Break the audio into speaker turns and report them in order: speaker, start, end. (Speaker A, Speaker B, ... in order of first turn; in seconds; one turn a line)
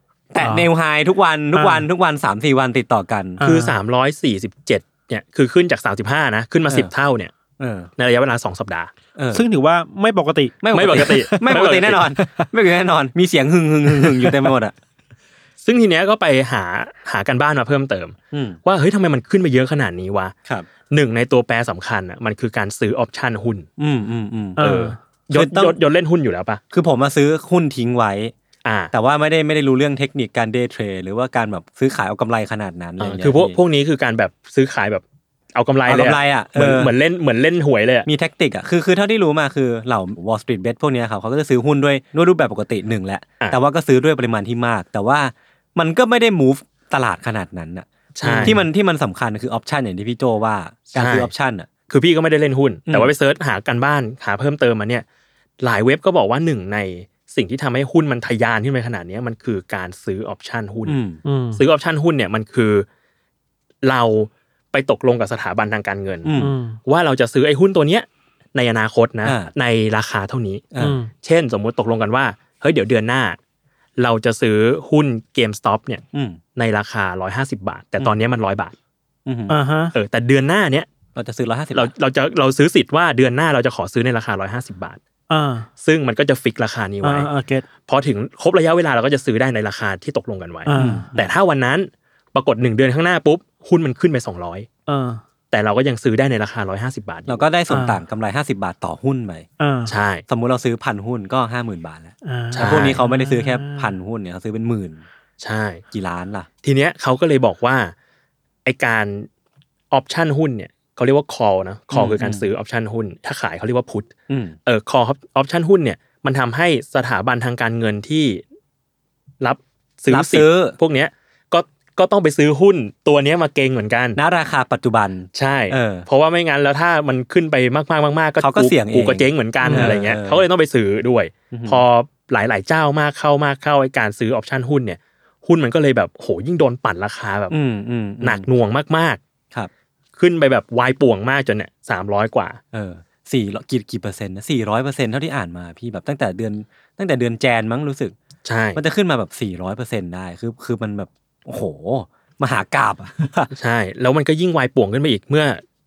Speaker A: 0.3-3.4
Speaker B: 0.4-0.7
Speaker B: 1.5-1.9
Speaker B: 3.4-3.7
Speaker C: 3.4-7.3
Speaker A: 7.6-7.9
Speaker C: 8.0-8.9
Speaker A: 9.1-9.4
Speaker B: 9.3-11.5
Speaker A: 10.6-14.7
Speaker C: 10.7-12.0
Speaker B: 12.2-12.4
Speaker B: 14.0-14.3
Speaker C: 15.6-18.1
Speaker A: 18.3-18.6
Speaker C: 18.6-20.3
Speaker C: 20.9-23.7
Speaker A: 23.8-24.6
Speaker B: 24.6-25.0
Speaker C: 24.6-26.6
Speaker A: 25.3-25.8
Speaker A: 26.7-28.3
Speaker C: 28.6-28.9
Speaker A: 28.9-33.6
Speaker C: 33.0-35.0
Speaker C: 35.5-38.1
Speaker A: 35.9-36.9
Speaker A: 38.0-51.7
Speaker C: 48.1-48.6
Speaker B: 48.2-48.5
Speaker C: 50.9-51.3
Speaker C: 51.9-55.0
Speaker C: 55.6-61.0
Speaker A: 60.9-61.2
Speaker B: 61.2-61.6
Speaker C: 61.5-62.9
Speaker C: 63.8-73.4
Speaker A: 66.2-66.5
Speaker B: 66.4-66.8
Speaker A: 69.2-69.5
Speaker A: 70.7-71.0
Speaker B: 70.8-71.1
Speaker C: 74.0-76.0
Speaker A: 76.1-76.4
Speaker C: 76.5-78.7
Speaker A: 79.2-79.5
Speaker B: 79.5-79.9
Speaker C: 79.9-80.9
Speaker A: 81.1-81.9
Speaker C: 81.7-85.0
Speaker B: 85.3-85.7
Speaker C: 85.8-87.3
Speaker B: 87.0-87.6
Speaker C: 87.8-94.7
Speaker B: 90.7-91.2
Speaker A: 90.7-91.2
Speaker B: 94.9-95.2
Speaker C: 95.5-97.4
Speaker A: 97.3-99.5
Speaker B: 97.7-98.0
Speaker B: 99.6-99.9
Speaker C: 99.9-100.2
Speaker A: 100.3-105.0
Speaker B: 102.2-103.9
Speaker C: 102.5-103.0
Speaker C: 105.4-105.8
Speaker A: 105.9-106.5
Speaker C: 106.6-107.9
Speaker C: 108.6-109.3
Speaker C: 109.9-114.1
Speaker A: 111.9-112.5
Speaker A: 114.3-114.5
Speaker C: 114.7-118.4
Speaker C: 119.4-124.2
Speaker A: 120.1-120.8
Speaker A: 124.1-126.1
Speaker C: 125.3-137.5
Speaker A: 128.4-130.4
Speaker B: 129.6-129.9
Speaker A: 131.5-131.8
Speaker A: 137.5-138.5
Speaker C: 138.2-139.2
Speaker C: 140.2-142.6
Speaker A: 142.7-148.1
Speaker C: 148.4-148.8
Speaker A: 148.7-153.5
Speaker C: 153.5-155.6